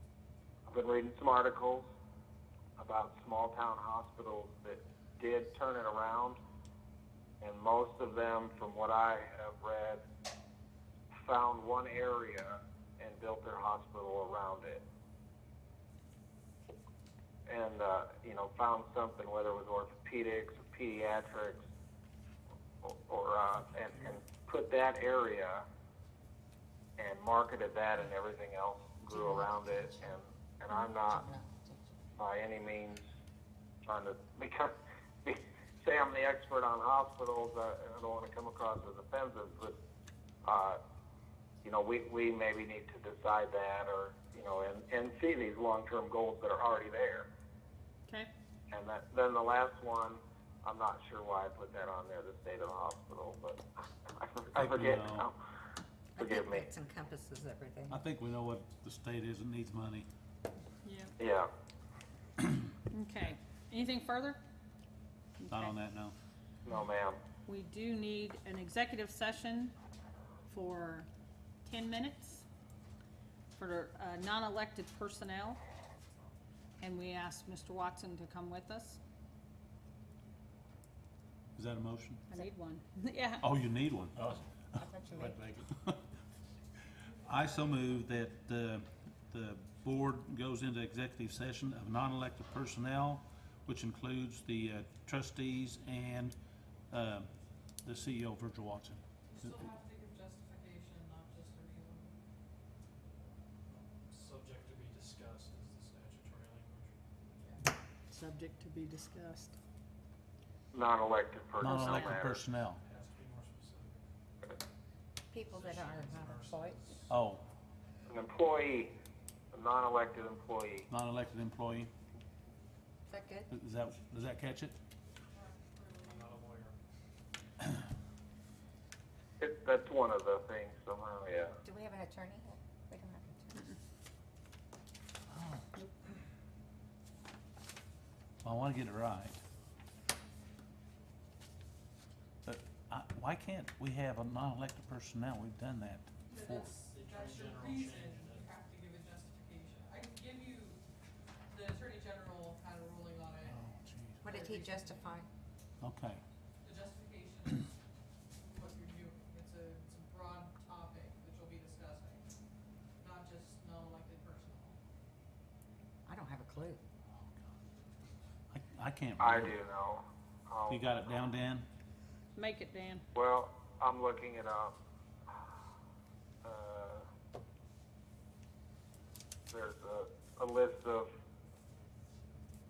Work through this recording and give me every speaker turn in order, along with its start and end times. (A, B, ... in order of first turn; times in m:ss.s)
0:00.7-0:01.8 A
0:02.8-0:06.4 A
0:07.4-0:10.0 A
0:11.1-0:14.8 A
0:17.5-0:21.6 A
0:22.8-0:25.6 A
0:27.0-0:31.2 A
0:29.1-0:30.2 B
0:30.7-0:31.9 B
0:32.2-0:33.0 A
0:33.8-0:34.7 A
0:35.2-0:39.7 A
0:40.4-0:40.8 A
0:41.6-0:47.3 A
0:48.7-0:55.4 A
0:54.5-0:55.3 C
0:56.2-0:56.7 A
0:56.2-0:58.0 B
0:57.9-1:00.1 C
1:00.8-1:01.1 D
1:01.2-1:01.5 A
1:02.9-1:04.4 D
1:05.4-1:05.7 D
1:05.5-1:06.1 C
1:06.6-1:07.2 A
1:07.4-1:09.7 D
1:10.5-1:11.1 D
1:11.6-1:12.4 D
1:13.6-1:15.6 D
1:16.8-1:19.0 D
1:21.6-1:22.2 C
1:22.3-1:23.5 D
1:23.4-1:26.0 C
1:24.7-1:25.4 B
1:27.2-1:36.4 C
1:36.9-1:37.3 C
1:37.8-1:39.6 C
1:39.3-1:42.1 E
1:43.7-1:47.5 F
1:48.1-1:49.6 D
1:50.7-1:52.4 A
1:51.6-1:52.8 C
1:52.8-1:54.0 F
1:55.3-1:56.8 B
1:55.4-1:57.1 F
1:57.1-1:57.4 C
1:58.1-1:58.9 A
1:59.5-2:00.9 A
2:00.9-2:01.9 C
2:03.1-2:03.5 B
2:03.5-2:04.8 C
2:05.3-2:06.2 E
2:06.0-2:06.8 F
2:09.4-2:11.6 A
2:11.6-2:13.7 B
2:15.3-2:15.8 C
2:18.4-2:19.4 C
2:22.4-2:26.7 C
2:26.3-2:30.8 E
2:26.9-2:28.5 F
2:31.5-2:33.6 E
2:33.4-2:34.3 C
2:34.2-2:35.3 B
2:34.4-2:35.1 E
2:35.8-2:36.2 C
2:36.6-2:37.7 E
2:38.4-2:42.2 E
2:43.0-2:44.8 E
2:46.0-2:46.8 B
2:48.5-2:49.5 C
2:49.2-2:51.0 A
2:50.7-2:51.6 C
2:52.3-2:53.0 D
2:53.1-2:54.7 A
2:56.4-2:57.0 A
2:59.5-3:01.1 A